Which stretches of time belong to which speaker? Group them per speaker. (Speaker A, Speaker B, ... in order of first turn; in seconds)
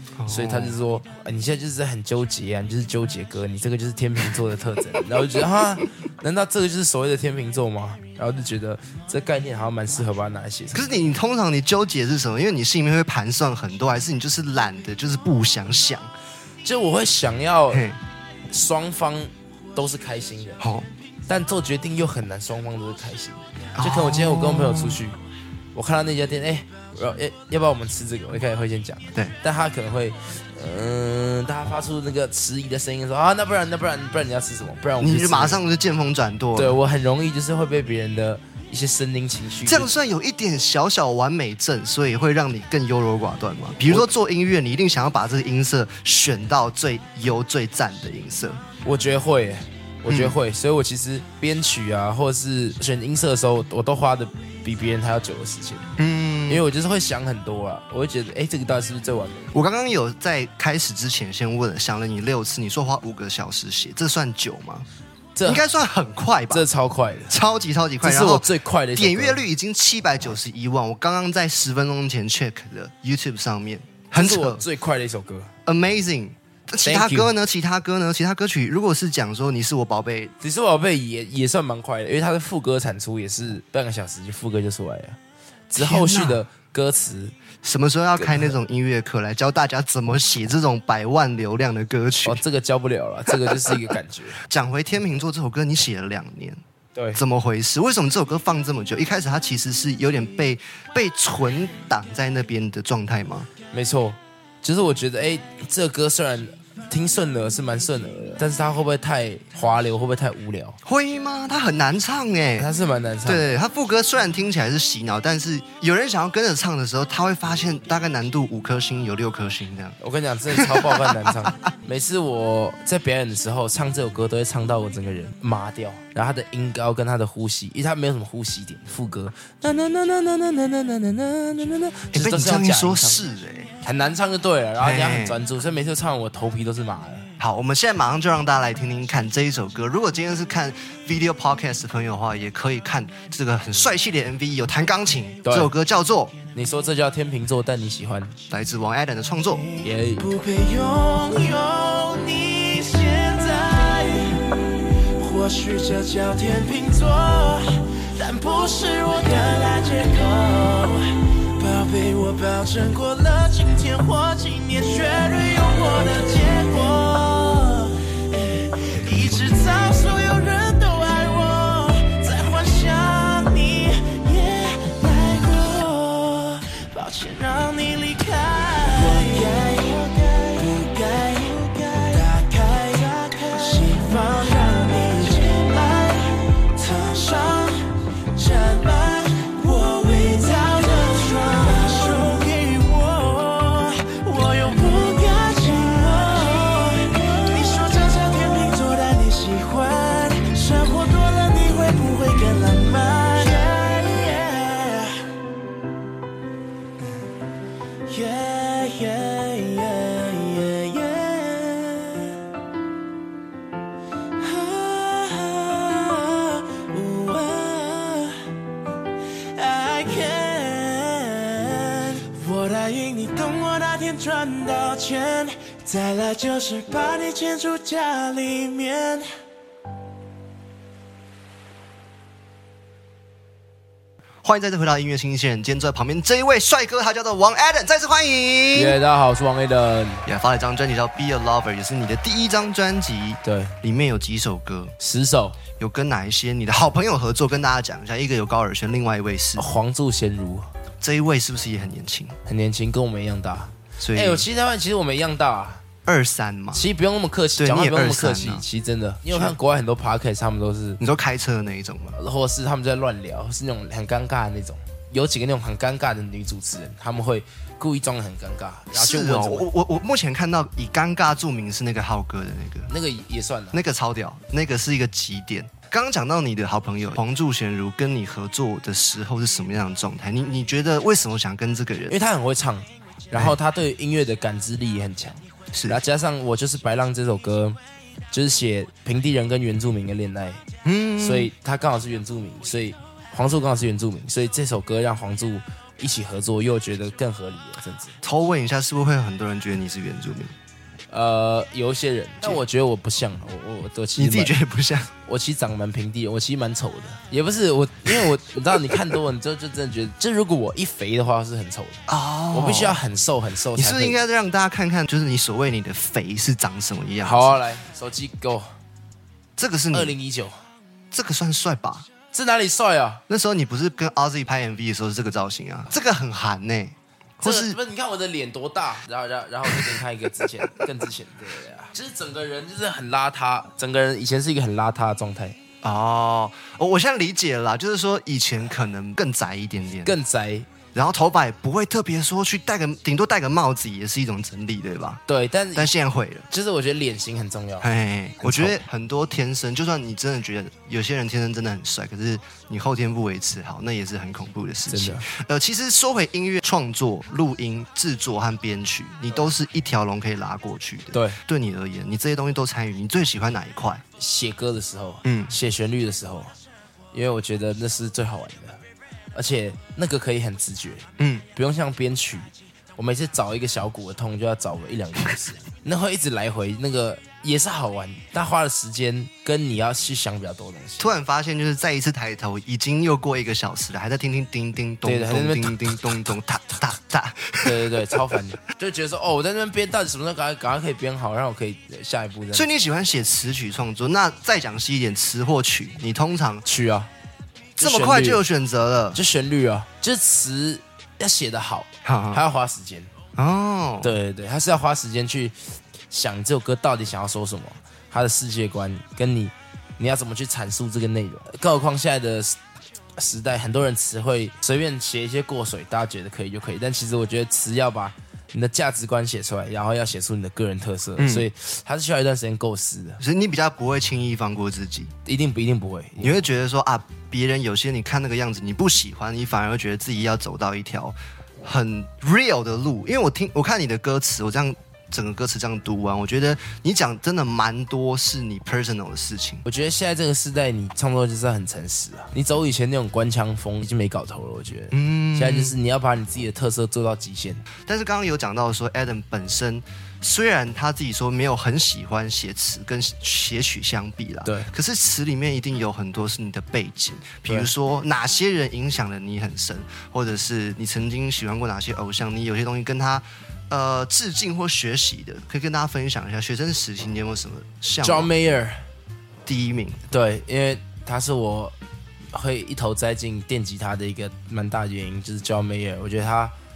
Speaker A: 0.2-0.8, 10.7-16.1, 17.7-18.0, 20.6-20.9, 23.8-25.0, 35.0-36.8, 39.6-48.6, 50.1-50.4, 56.0-56.6, 59.5-64.8, 65.4-66.7, 67.3-74.6, 75.7-80.3, 85.7-86.4, 87.6-92.4, 94.5-96.6, 97.1-103.5, 110.8-112.7, 113.2-120.0, 120.5-121.5, 132.1-133.7, 134.8-135.4, 137.4-146.3, 148.5-149.7, 234.4-239.0, 240.2-244.9, 245.8-249.6, 251.0-252.4, 254.0-254.4, 256.1-256.8, 257.6-258.6, 259.3-259.5, 261.0-262.2, 268.9-272.9, 273.7-282.1, 283.3-283.6, 285.7-286.0, 290.8-291.5, 298.2-300.5, 304.1-305.1, 312.1-313.0, 313.7-317.5, 319.6-320.1, 321.1-322.1, 323.3-327.8, 335.8-340.1, 340.9-345.2, 345.7-346.5, 347.8-364.0, 365.2-365.5, 371.2-371.4, 381.0-387.8, 392.5-396.6, 397.8-399.2, 402.0-402.4, 403.4-404.1, 421.2-421.5, 423.2-425.1, 426.2-439.6, 444.9-445.7, 447.9-468.3, 469.4-470.0
Speaker B: 0.3-10.9, 16.6-17.9, 18.5-20.6, 21.3-25.2, 25.7-35.6, 36.5-39.9, 48.8-55.9, 56.5-59.5, 65.3-65.6, 66.5-67.3, 68.0-69.4, 74.1-75.5, 76.8-77.3, 80.4-85.2, 85.7-87.3, 88.2-88.5, 92.2-94.4, 103.7-110.8, 112.6-113.5, 120.0-133.2, 133.8-137.3, 145.4-145.7, 146.5-148.4, 149.8-150.2, 238.7-240.3, 243.4-243.8, 245.0-245.6, 249.6-250.7, 252.4-255.8, 256.7-261.0, 262.1-269.7, 272.9-273.8, 282.1-287.8, 288.3-290.6, 291.2-298.2, 301.1-304.5, 305.2-314.2, 317.2-318.7, 319.9-320.6, 322.3-323.2, 327.4-335.6, 340.0-340.7, 345.3-345.9, 346.5-347.9, 348.4-348.8, 354.9-355.2, 361.1-361.4, 364.2-366.5, 367.1-368.8, 369.3-381.1, 385.0-386.0, 387.6-392.7, 396.6-397.1, 397.8-398.4, 399.1-403.1, 404.0-405.6, 406.1-412.6, 413.2-423.2, 425.2-426.4, 439.6-447.6, 468.0-468.8, 470.1-471.7, 472.3-476.5
Speaker C: 149.6-154.5, 155.1-205.2, 208.1-212.3, 214.4-218.4, 219.5-229.3